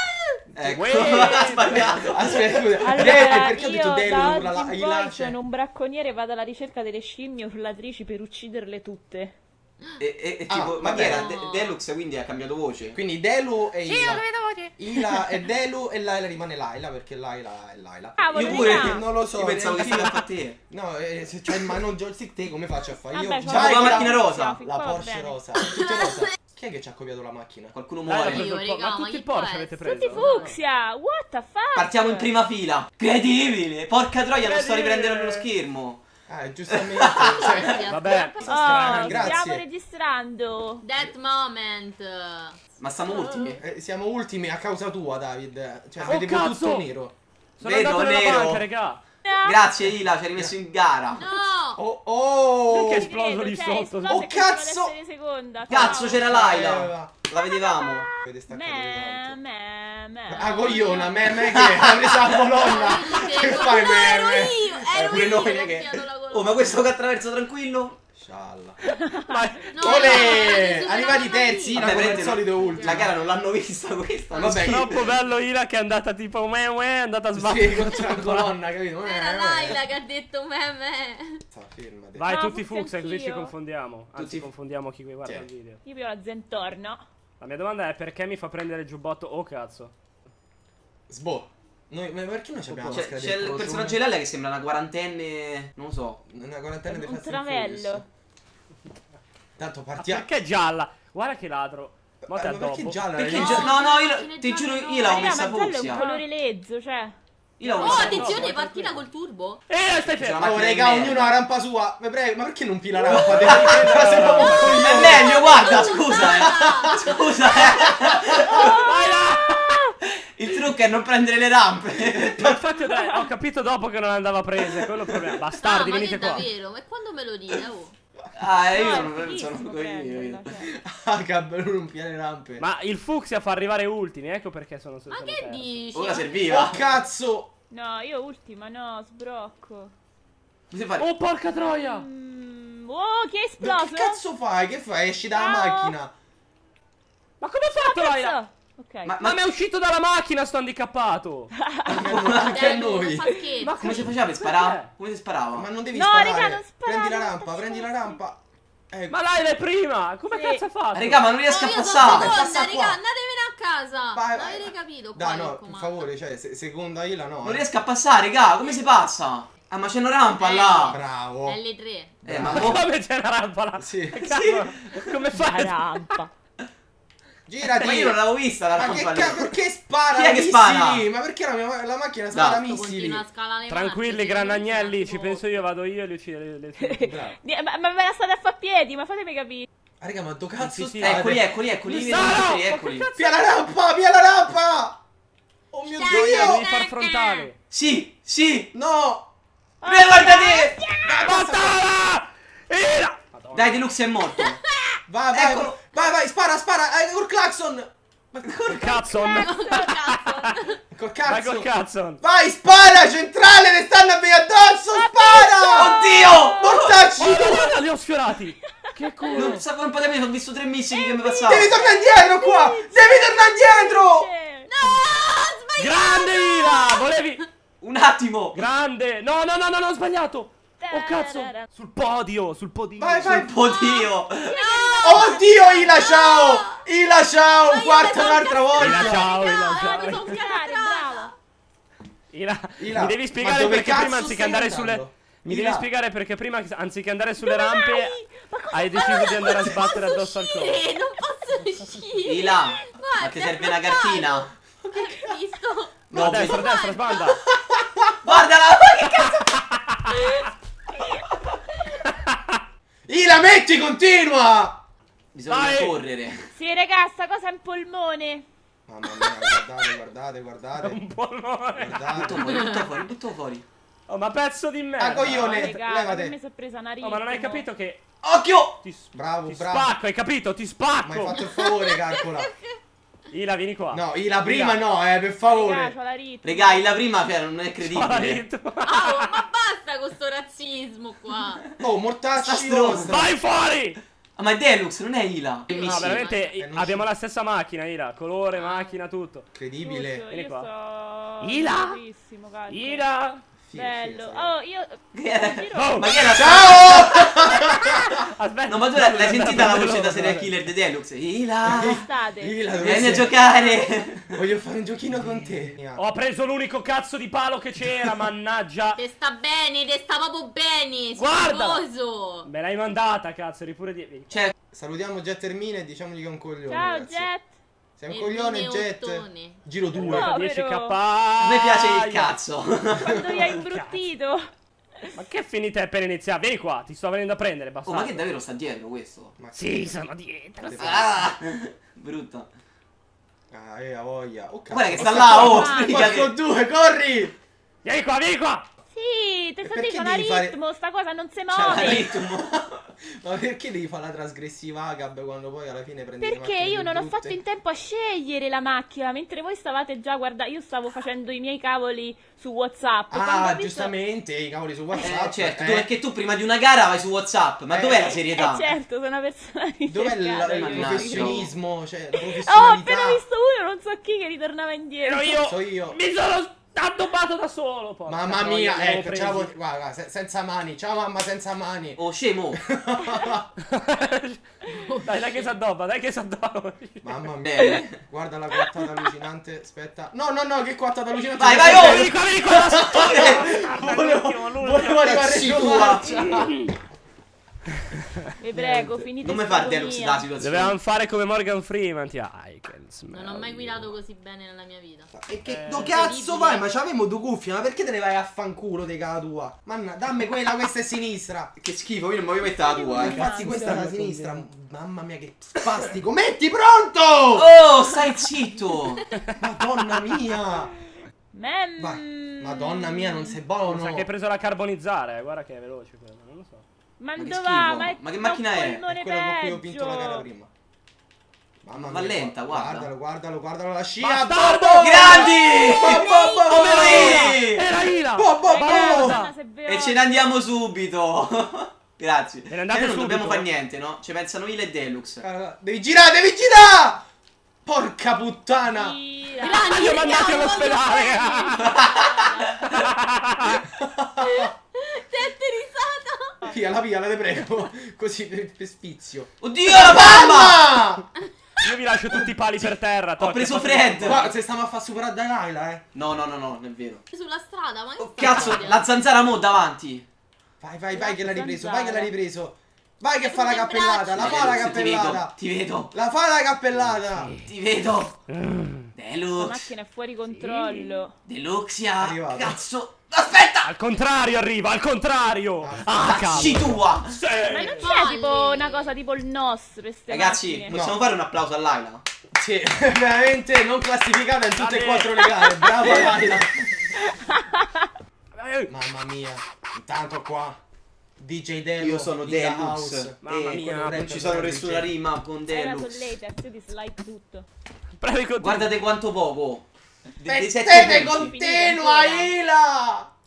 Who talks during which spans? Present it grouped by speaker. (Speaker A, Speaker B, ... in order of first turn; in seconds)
Speaker A: 0.5-2.7, 10.0-13.0, 18.3-20.6, 23.4-24.6, 27.7-28.5, 31.7-36.0, 36.7-37.6, 42.8-43.6, 47.6-48.6, 49.4-51.2, 55.7-58.0, 61.3-62.7, 64.9-68.0, 71.8-75.1, 92.9-96.2, 103.2-106.0, 107.6-108.5, 109.9-111.4, 113.1-118.8, 120.2-122.6, 125.1-125.4, 128.3-130.5, 135.9-136.8, 140.7-141.1, 149.0-149.4, 151.9-152.7, 153.8-155.7, 160.9-162.3, 167.4-171.0, 172.2-172.8, 174.3-174.7, 177.8-179.5, 180.1-181.1, 182.3-182.6, 191.0-193.1, 197.7-198.7, 199.8-200.8, 203.5-204.6, 205.3-205.8, 208.4-209.0, 215.7-217.1, 219.3-221.8, 227.8-228.6, 233.2-234.6, 252.2-254.5, 256.1-256.6, 258.2-259.5, 265.3-266.4, 272.1-273.6, 278.2-278.8, 286.4-288.4, 292.4-293.2, 294.4-296.2, 305.1-307.5, 308.7-312.0, 312.8-314.4, 331.4-333.5, 337.9-339.4, 340.8-342.5, 344.7-346.4, 351.5-352.8, 365.0-368.7, 370.5-371.5, 381.9-382.6, 387.4-388.0, 391.4-393.4, 395.2-396.1, 399.2-400.8, 411.6-413.2, 417.3-419.1, 427.1-428.9, 431.8-432.9, 434.8-437.7, 439.6-445.2, 451.6-452.7, 459.4-460.7, 463.2-464.3, 465.9-467.0, 468.0-470.1, 474.1-475.9, 477.4-478.2, 478.9-479.7, 481.2-483.7, 486.2-487.2, 490.1-492.1, 495.8-496.4, 501.8-506.1, 508.4-511.3
Speaker B: 0.6-2.1, 28.1-30.6, 34.4-35.5, 37.8-39.4, 46.0-46.9, 47.6-49.0, 52.7-54.2, 69.2-70.4, 74.4-78.5, 82.2-85.8, 87.4-89.9, 92.7-93.1, 100.0-103.1, 105.9-106.2, 107.6-109.1, 109.7-110.6, 113.1-115.1, 118.6-119.8, 122.4-126.5, 132.6-135.7, 141.0-142.1, 147.4-148.4, 149.2-151.5, 153.6-154.9, 159.1-161.4, 172.4-176.1, 183.7-187.0, 190.6-191.2, 191.8-193.3, 196.0-197.5, 201.1-203.8, 208.7-210.7, 211.2-212.2, 217.2-219.6, 225.8-227.4, 228.5-233.3, 238.8-240.3, 242.3-248.2, 248.7-250.9, 256.1-257.4, 259.8-260.3, 262.1-262.6, 265.5-266.0, 269.2-269.6, 270.8-272.7, 274.1-275.7, 277.0-278.0, 278.8-281.6, 283.3-284.8, 287.8-289.4, 293.0-294.0, 295.8-299.5, 300.3-300.7, 301.4-302.0, 302.7-303.4, 305.7-306.6, 307.7-310.5, 315.9-319.0, 321.1-321.9, 322.4-324.5, 329.9-332.4, 333.5-334.1, 335.1-338.3, 339.5-340.9, 347.8-348.6, 375.0-379.5, 383.6-387.3, 391.5-396.8, 400.4-403.9, 405.4-406.0, 413.0-414.5, 419.1-419.4, 423.6-426.6, 434.0-435.3, 436.4-439.4, 442.5-443.4, 449.4-451.8, 452.6-453.6, 461.6-464.2, 476.9-477.5, 478.3-478.9, 480.3-481.1, 483.6-487.9, 494.5-495.6, 498.3-498.7, 503.2-504.5, 508.0-508.7
Speaker C: 1.9-5.3, 10.5-11.3, 12.9-14.2, 14.8-27.7, 36.3-39.6, 43.6-47.1, 51.7-53.1, 54.1-54.9, 55.7-57.1, 58.2-59.4, 60.3-65.8, 68.2-68.8, 69.8-73.1, 74.3-74.9, 77.3-79.8, 81.5-82.3, 84.2-84.5, 91.1-94.0, 96.3-98.0, 99.6-100.3, 102.3-103.7, 110.4-117.1, 130.7-132.6, 136.4-137.5, 143.6-146.1, 151.9-153.3, 155.5-158.4, 161.9-163.0, 164.1-167.7, 170.9-171.6, 172.2-172.8, 173.8-174.2, 177.5-178.2, 178.7-183.2, 187.0-187.3, 190.0-191.4, 193.2-195.0, 195.7-196.7, 198.7-199.3, 201.0-201.8, 205.1-209.1, 210.9-211.7, 212.2-217.7, 221.4-224.3, 233.0-233.5, 235.0-239.3, 242.8-245.9, 254.8-255.4, 256.1-256.7, 257.5-258.4, 263.1-264.9, 268.9-271.0, 271.8-272.5, 275.0-276.4, 279.1-279.9, 281.0-282.5, 283.9-285.9, 291.8-293.4, 295.7-297.1, 299.5-300.2, 303.6-304.5, 306.3-308.1, 311.6-313.4, 314.3-316.0, 324.7-327.3, 328.0-330.3, 339.4-339.9, 340.6-341.3, 343.5-347.3, 349.6-350.6, 351.6-352.4, 353.2-357.4, 363.1-365.9, 367.7-368.2, 369.9-373.2, 375.4-376.0, 378.1-383.4, 387.0-396.4, 398.5-399.1, 405.1-411.5, 413.0-417.5, 419.4-420.7, 421.8-424.1, 428.9-430.5, 431.6-437.5, 438.1-439.2, 445.2-447.0, 447.6-449.0, 453.8-454.5, 456.4-461.1, 464.1-465.8, 468.2-468.7, 470.6-475.4, 475.9-477.4, 482.0-482.6, 485.6-486.8, 490.7-491.0, 492.3-496.7, 498.7-500.6, 501.2-504.9, 510.2-513.1
Speaker D: 2.8-9.4, 18.2-19.1, 23.1-25.6, 29.8-32.4, 38.1-40.8, 52.8-56.3, 57.4-61.3, 68.9-70.5, 82.2-83.5, 85.8-87.0, 96.9-98.0, 105.0-107.1, 118.5-119.8, 122.9-123.2, 128.7-130.7, 137.7-139.9, 141.8-144.2, 145.3-146.0, 147.8-149.1, 151.6-152.3, 155.9-158.2, 160.3-160.6, 175.3-176.3, 186.8-189.7, 199.8-201.3, 209.1-210.6, 214.9-217.5, 219.3-219.5, 220.9-225.2, 230.8-231.6, 234.5-236.0, 240.2-241.3, 247.4-249.9, 266.5-268.4, 275.2-277.7, 285.4-287.0, 299.8-303.1, 303.7-306.2, 311.8-312.7, 313.2-313.8, 326.7-327.5, 330.0-331.0, 333.0-335.1, 345.0-346.1, 348.9-352.1, 356.2-363.9, 368.2-371.5, 372.1-375.4, 398.4-400.2, 412.4-413.6, 421.3-423.4, 427.0-430.2, 438.4-440.1, 448.6-452.7, 470.9-472.1, 479.4-481.1, 487.5-490.8, 496.9-497.9, 505.5-507.5, 510.7-512.4
Speaker E: 10.8-11.8, 13.9-14.7, 28.3-30.4, 37.2-38.4, 40.8-43.5, 51.1-51.8, 62.6-66.9, 69.7-71.9, 72.7-73.0, 79.0-81.4, 103.3-105.3, 107.8-109.6, 115.1-117.0, 125.5-127.9, 135.1-136.6, 152.4-154.1, 161.5-166.0, 170.4-172.2, 182.5-185.5, 196.0-197.5, 209.2-210.8, 224.7-227.2, 233.6-236.8, 237.6-241.3, 249.0-257.2, 281.6-282.7, 288.8-291.6, 295.7-296.5, 298.6-298.9, 318.9-322.5, 328.1-329.6, 384.7-385.5, 403.1-405.1, 405.9-406.7, 435.3-436.4, 449.4-451.6, 454.2-456.4, 467.1-468.8, 473.2-474.7, 487.8-488.9